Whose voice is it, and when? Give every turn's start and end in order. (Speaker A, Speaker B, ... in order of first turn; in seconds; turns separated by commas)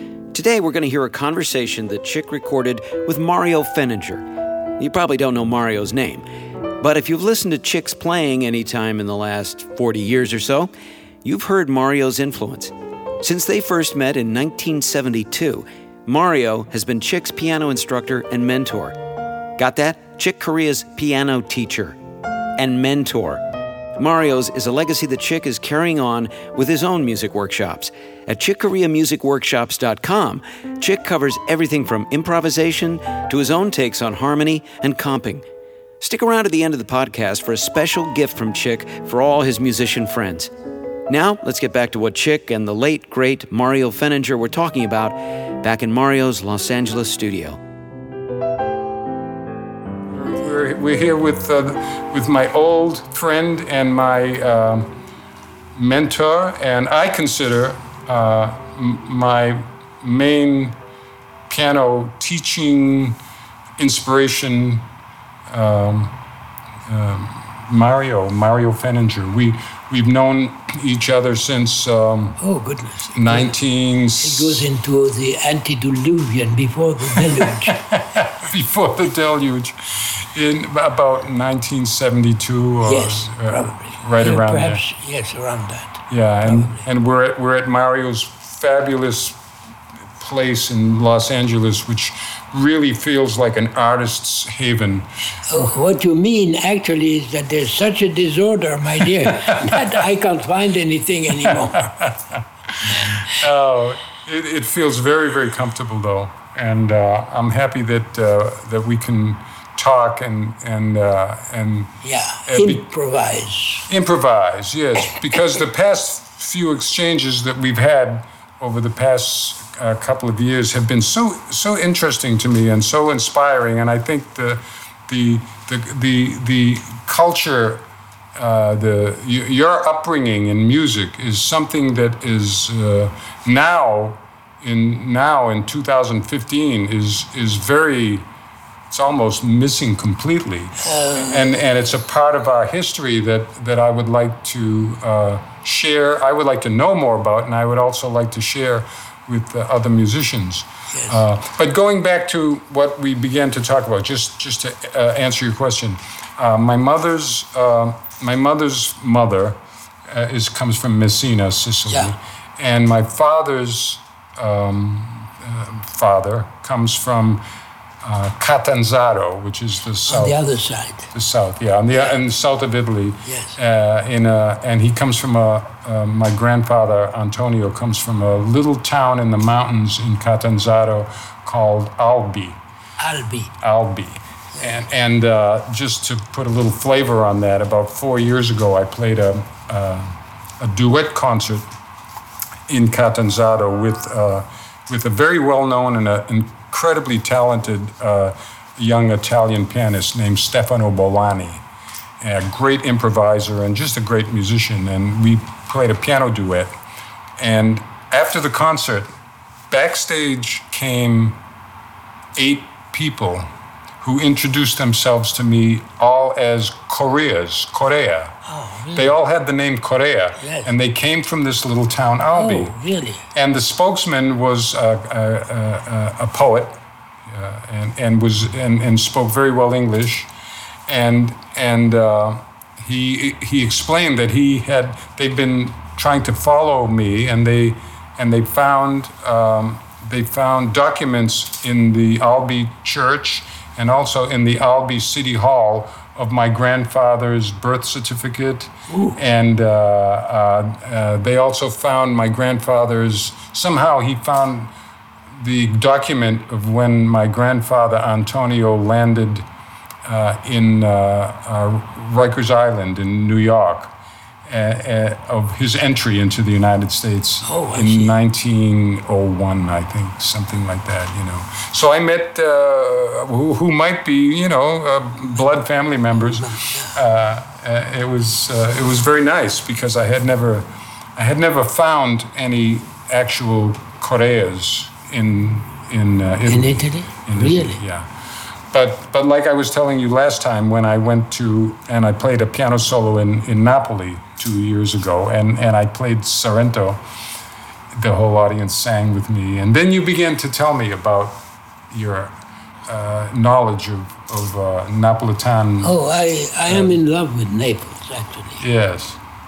Speaker A: 0.3-4.2, Speaker A: 4.8-6.2, Speaker A: 6.8-10.7, Speaker A: 11.2-19.0, Speaker A: 19.6-22.0, Speaker A: 22.6-23.4, Speaker A: 24.0-35.5, Speaker A: 36.0-40.5, Speaker A: 41.1-47.6, Speaker B: 50.1-54.9, Speaker B: 55.8-60.8, Speaker B: 61.5-63.2, Speaker B: 63.8-64.8, Speaker B: 65.5-66.1, Speaker B: 66.9-72.4, Speaker C: 72.4-73.5, Speaker B: 73.1-74.7, Speaker C: 74.2-77.8, Speaker B: 77.2-84.8, Speaker C: 82.8-86.9, Speaker B: 86.1-89.4, Speaker B: 90.2-95.7, Speaker C: 95.5-102.1, Speaker B: 99.2-100.0, Speaker B: 101.3-112.8, Speaker C: 102.8-103.4, Speaker C: 112.0-113.9, Speaker B: 113.9-138.3, Speaker B: 138.9-167.4, Speaker C: 140.8-141.6, Speaker C: 150.9-151.2, Speaker C: 161.9-162.1, Speaker B: 168.0-170.4, Speaker C: 170.1-171.1, Speaker B: 171.1-182.6, Speaker C: 173.2-173.6, Speaker C: 183.0-183.5, Speaker B: 183.6-191.7, Speaker B: 192.7-201.6, Speaker B: 202.2-206.8, Speaker B: 207.4-209.1, Speaker B: 209.7-211.4, Speaker B: 212.3-213.5, Speaker B: 214.0-218.4, Speaker C: 218.4-219.1, Speaker B: 218.9-222.8, Speaker C: 220.4-220.7, Speaker C: 222.3-223.2, Speaker B: 223.3-230.3, Speaker B: 230.9-254.7, Speaker C: 248.9-249.2, Speaker B: 255.3-259.5, Speaker B: 260.1-263.9, Speaker B: 264.5-288.1, Speaker C: 267.4-268.2, Speaker C: 276.4-277.0, Speaker C: 286.5-287.8, Speaker B: 288.7-297.0, Speaker B: 297.9-306.0, Speaker C: 305.8-308.6, Speaker B: 306.7-307.0, Speaker B: 308.6-309.2